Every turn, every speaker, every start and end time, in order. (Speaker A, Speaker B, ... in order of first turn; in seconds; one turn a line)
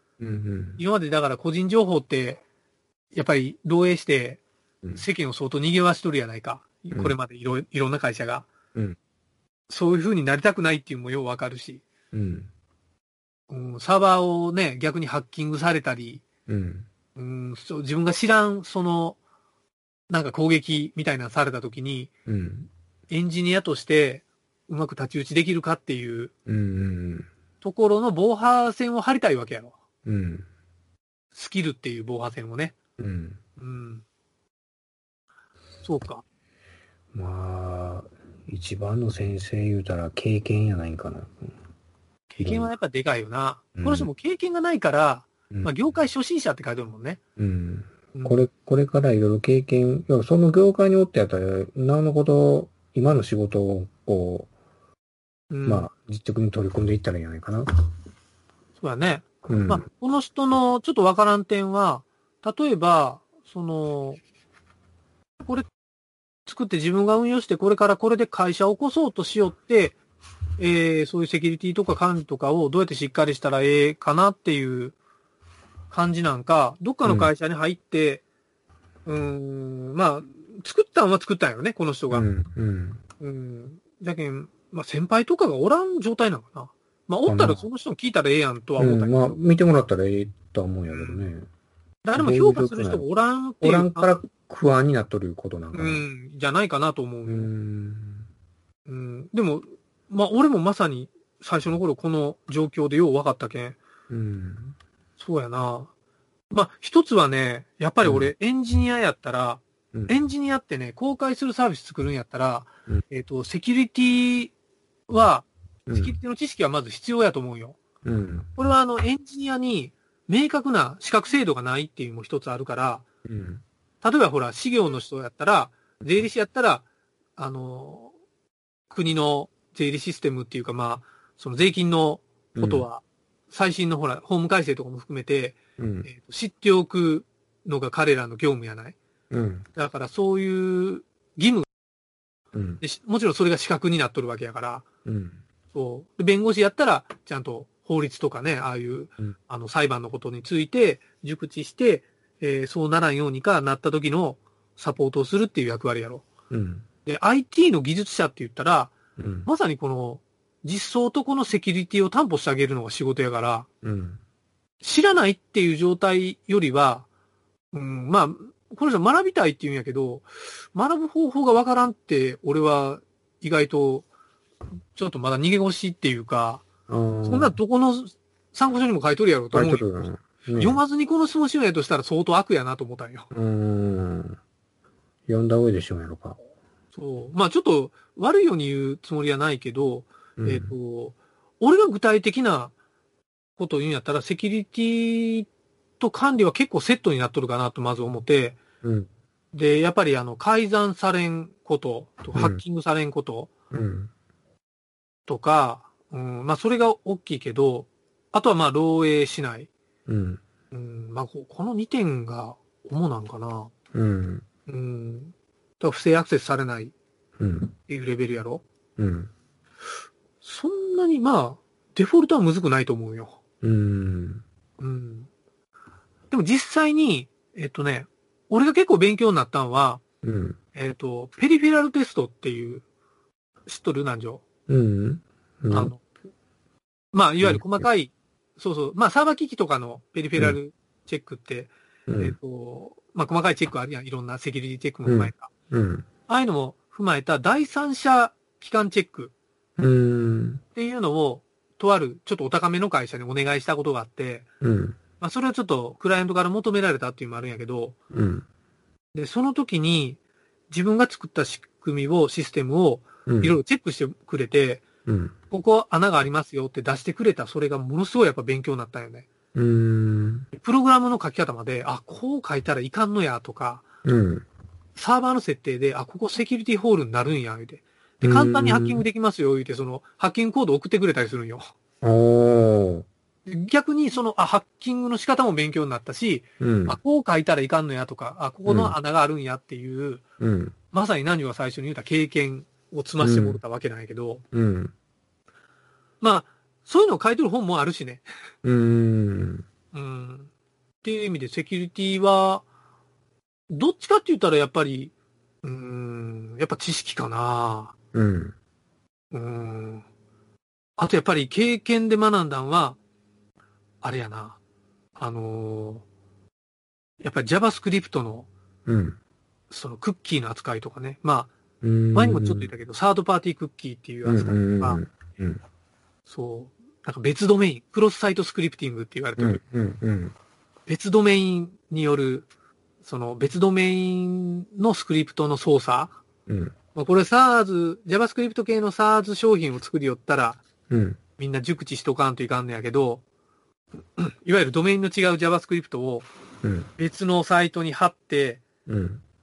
Speaker A: 0.2-0.8
Speaker B: 0.8-2.4
Speaker B: 3.1-4.4
Speaker B: 4.9-8.5
Speaker B: 9.7-11.8
Speaker A: 12.1-12.5
Speaker B: 13.5-16.2
Speaker A: 16.5-16.9
Speaker B: 17.1-19.2
Speaker B: 20.1-22.1
Speaker A: 22.3-22.7
Speaker B: 23.1-26.3
Speaker A: 26.4-27.3
Speaker B: 27.6-29.8
Speaker A: 30.0-30.5
Speaker B: 31.3-32.8
Speaker A: 33.0-33.4
Speaker B: 33.6-34.0
Speaker B: 35.8-36.2
Speaker A: 37.1-41.5
Speaker B: 42.3-47.2
Speaker A: 42.4-42.7
Speaker A: 43.7-44.1
Speaker A: 47.4-54.5
Speaker B: 48.1-48.4
Speaker B: 55.5-55.9
Speaker A: 55.6-57.7
Speaker B: 58.8-64.2
Speaker A: 59.5-59.8
Speaker B: 66.5-70.0
Speaker B: 70.6-75.0
Speaker B: 75.9-78.2
Speaker A: 77.0-77.3
Speaker B: 79.0-82.3
Speaker A: 82.1-83.0
Speaker B: 83.2-89.4
Speaker A: 87.2-87.6
Speaker A: 88.8-91.5
Speaker B: 90.9-91.2
Speaker B: 92.0-94.1
Speaker A: 92.1-93.0
Speaker A: 93.6-96.0
Speaker B: 95.7-97.5
Speaker A: 97.2-98.3
Speaker B: 98.9-103.8
Speaker A: 104.1-104.8
Speaker B: 105.2-105.9
Speaker B: 106.5-114.5
Speaker A: 108.0-108.3
Speaker B: 115.1-117.8
Speaker A: 115.9-116.1
Speaker A: 118.0-118.5
Speaker B: 118.5-123.0
Speaker A: 123.2-123.6
Speaker B: 124.0-126.8
Speaker B: 127.4-128.1
Speaker B: 128.9-139.0
Speaker A: 132.6-132.8
Speaker A: 135.8-136.1
Speaker A: 139.3-139.7
Speaker B: 139.7-141.7
Speaker A: 142.5-142.8
Speaker B: 142.8-144.8
Speaker A: 145.0-145.4
Speaker B: 145.7-156.3
Speaker A: 156.5-156.8
Speaker B: 157.0-163.7
Speaker A: 159.2-159.5
Speaker A: 163.8-164.2
Speaker B: 164.8-167.1
Speaker B: 167.7-174.1
Speaker B: 174.9-176.7
Speaker A: 176.9-177.6
Speaker B: 177.2-183.3
Speaker A: 179.5-180.8
Speaker A: 183.3-184.4
Speaker A: 185.3-186.4
Speaker B: 186.9-192.7
Speaker A: 190.4-190.7
Speaker B: 193.6-195.5
Speaker B: 196.0-198.6
Speaker A: 198.8-199.1
Speaker B: 199.5-203.5
Speaker A: 202.3-202.6
Speaker A: 203.7-204.1
Speaker B: 205.2-209.7
Speaker A: 210.1-210.4
Speaker B: 210.7-213.7
Speaker A: 213.9-214.4
Speaker B: 214.7-216.9
Speaker A: 217.4-217.7
Speaker B: 217.9-218.6
Speaker A: 219.0-219.3
Speaker B: 220.4-223.4
Speaker A: 223.6-224.4
Speaker B: 224.8-225.3
Speaker B: 226.3-230.0
Speaker A: 230.2-230.6
Speaker B: 230.7-232.8
Speaker B: 233.7-234.4
Speaker A: 234.7-235.9
Speaker B: 235.7-236.0
Speaker B: 237.1-245.5
Speaker A: 237.4-237.8
Speaker A: 242.1-242.3
Speaker A: 245.1-246.1
Speaker B: 246.3-249.3
Speaker A: 249.8-250.6
Speaker B: 250.7-254.5
Speaker A: 254.6-255.0
Speaker B: 255.2-257.9
Speaker A: 258.1-258.4
Speaker B: 259.1-260.2
Speaker B: 260.7-264.9
Speaker A: 263.3-263.6
Speaker A: 265.1-265.3
Speaker B: 265.5-269.3
Speaker A: 269.5-270.5
Speaker B: 270.5-273.8
Speaker A: 274.0-274.4
Speaker B: 274.9-281.7
Speaker A: 278.2-279.0
Speaker A: 282.0-283.1
Speaker B: 283.4-290.2
Speaker A: 286.6-287.0
Speaker A: 288.6-288.9
Speaker A: 290.4-290.7
Speaker B: 290.9-294.4
Speaker A: 293.2-293.6
Speaker A: 294.5-294.9
Speaker B: 296.2-298.2
Speaker A: 298.6-299.6
Speaker B: 299.9-300.5
Speaker B: 301.0-302.6
Speaker B: 303.7-307.9
Speaker A: 308.1-308.6
Speaker B: 309.3-310.1
Speaker B: 311.0-313.0
Speaker B: 314.0-314.6
Speaker B: 315.1-316.1
Speaker B: 317.2-318.5
Speaker A: 318.9-319.2
Speaker B: 319.7-321.5
Speaker A: 321.8-322.7
Speaker B: 322.1-325.0
Speaker A: 324.2-325.6
Speaker B: 326.2-329.6
Speaker A: 329.4-330.3
Speaker B: 330.9-332.5
Speaker B: 333.0-336.2
Speaker A: 336.5-336.7
Speaker B: 336.9-340.6
Speaker A: 340.9-341.2
Speaker B: 341.4-343.2
Speaker B: 344.2-346.3
Speaker A: 346.6-346.9
Speaker B: 347.0-348.6
Speaker A: 348.9-349.2